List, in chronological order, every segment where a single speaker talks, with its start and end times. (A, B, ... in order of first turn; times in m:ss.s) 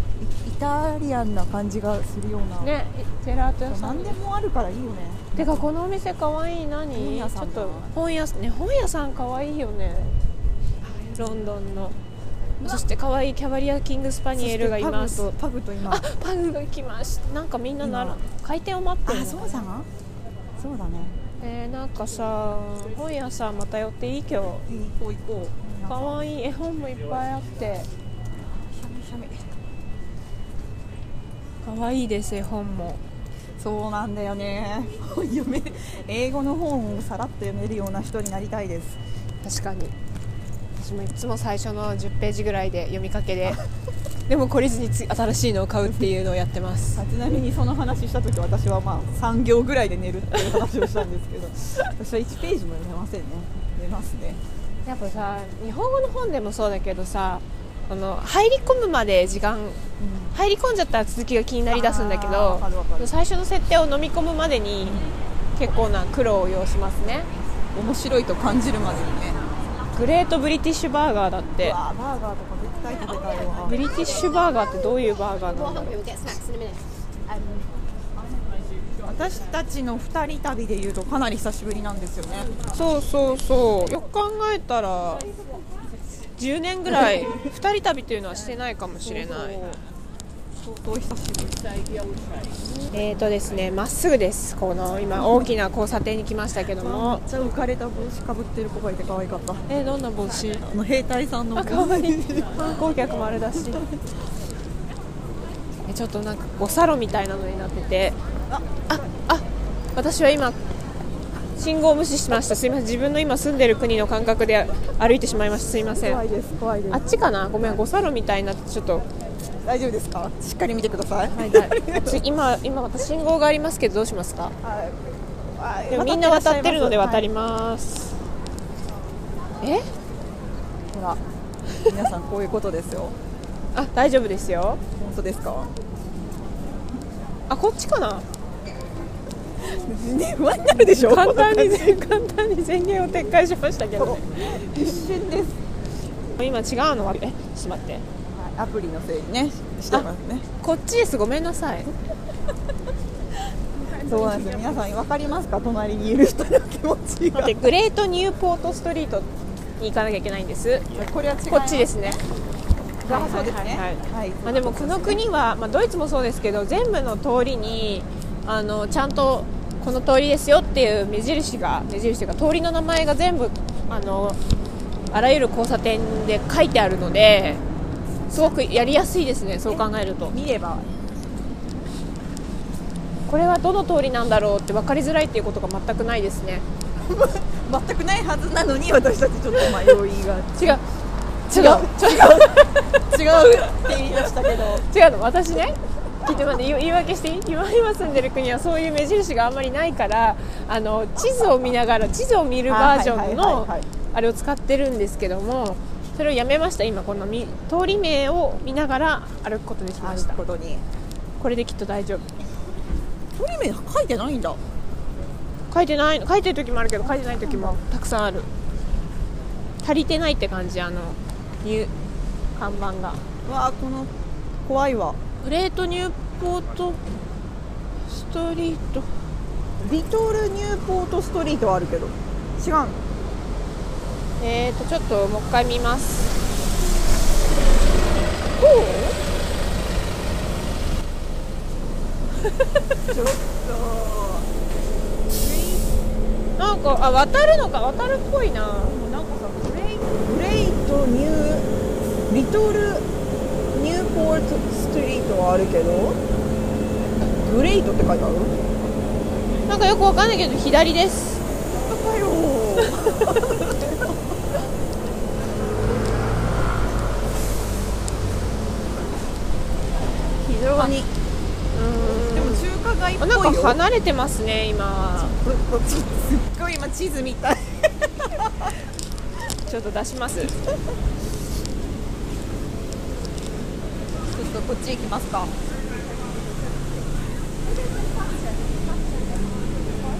0:00.2-0:02.7 A
0:02.6-0:04.2 B
0:03.7-0:05.7 A
0:05.3-0:10.1 B
0:06.9-0:07.9 A
0:11.0-0:12.0 B
0:12.6-0:12.9 A
0:12.6-0:15.3 B
0:14.4-0:16.1 A
0:15.8-0:19.6 B
0:17.8-0:18.2 A
0:19.0-0:19.9 A
0:20.6-0:21.2 A
0:21.4-0:24.6 B
0:24.7-0:26.2 A
0:25.9-0:27.9 B
0:28.4-0:29.5 A
0:31.6-0:33.0 B
0:33.6-0:39.0 A
0:39.4-0:39.9 B
0:40.8-0:43.6 B
0:44.3-0:47.0 B
0:47.0-0:54.4 A
0:54.8-0:59.8 B
1:00.0-1:00.3 A
1:00.3-1:05.0 B
1:01.7-1:03.1 A
1:05.6-1:07.3 B
1:07.7-1:09.4 A
1:09.9-1:11.8 B
1:11.6-1:13.8 A
1:13.6-1:16.4 B
1:17.3-1:17.6 A
1:19.0-1:22.5 A
1:22.7-1:25.2 B
1:26.4-1:29.6 B
1:28.9-1:29.8 A
1:30.5-1:31.6 A
1:32.9-1:37.2 B
1:35.2-1:35.5 A
1:36.8-1:39.6 A
1:39.7-1:40.7 B
1:40.7-1:42.6 A
1:41.6-1:43.8 B
1:45.9-1:48.2 B
1:48.5-1:49.1 A
1:48.9-1:49.4 B
1:49.9-1:50.6 B
1:51.6-1:56.2 B
1:55.9-1:57.2 A
1:56.9-1:59.0 B
1:59.6-2:02.2 A
2:01.3-2:04.5 B
2:04.6-2:07.3 A
2:05.9-2:08.2 B
2:10.9-2:11.2 A
2:11.8-2:13.1 A
2:13.7-2:14.8 B
2:15.0-2:15.7 A
2:17.5-2:18.2 B
2:19.6-2:22.0 A
2:20.8-2:25.0 B
2:24.0-2:25.6 A
2:26.4-2:28.0 B
2:28.3-2:30.4 A
2:30.6-2:31.9 B
2:33.9-2:34.5 B
2:34.0-2:37.6 A
2:37.3-2:40.8 B
2:40.9-2:42.2 A
2:41.5-2:42.2 B
2:43.0-2:54.4 B
2:43.0-2:45.2 A
2:55.1-2:57.6 B
2:58.2-2:59.0 A
2:58.3-3:00.3 B
2:59.6-3:00.9 A
3:03.3-3:06.6 B
3:07.0-3:10.8 A
3:11.5-3:12.8 B
3:11.5-3:14.8 A
3:14.8-3:30.4 B
3:22.7-3:23.8 A
3:30.0-3:30.8 A
3:31.4-3:32.3 B
3:33.4-3:34.6 A
3:35.7-3:38.5 B
3:37.0-3:37.8 A
3:39.8-3:41.9 B
3:42.6-3:43.2 B
3:43.4-3:44.1 A
3:44.6-3:45.2 A
3:45.4-3:47.0 B
3:48.1-3:49.1 B
3:49.8-3:53.0 A
3:54.4-3:56.3 B
3:58.6-3:59.1 A
4:03.1-4:04.5 A
4:05.3-4:05.9 A
4:06.6-4:09.0 B
4:08.8-4:11.7 A
4:12.3-4:13.0 A
4:13.7-4:16.2 A
4:17.4-4:18.6 A
4:19.7-4:21.4 B
4:21.8-4:24.0 A
4:22.8-4:23.3 B
4:30.4-4:31.1 A
4:31.7-4:32.6 B
4:32.0-4:33.8 A
4:33.2-4:35.3 B
4:35.1-4:38.7 A
4:39.6-4:40.5 B
4:44.3-4:45.5 A
4:48.0-4:48.3 A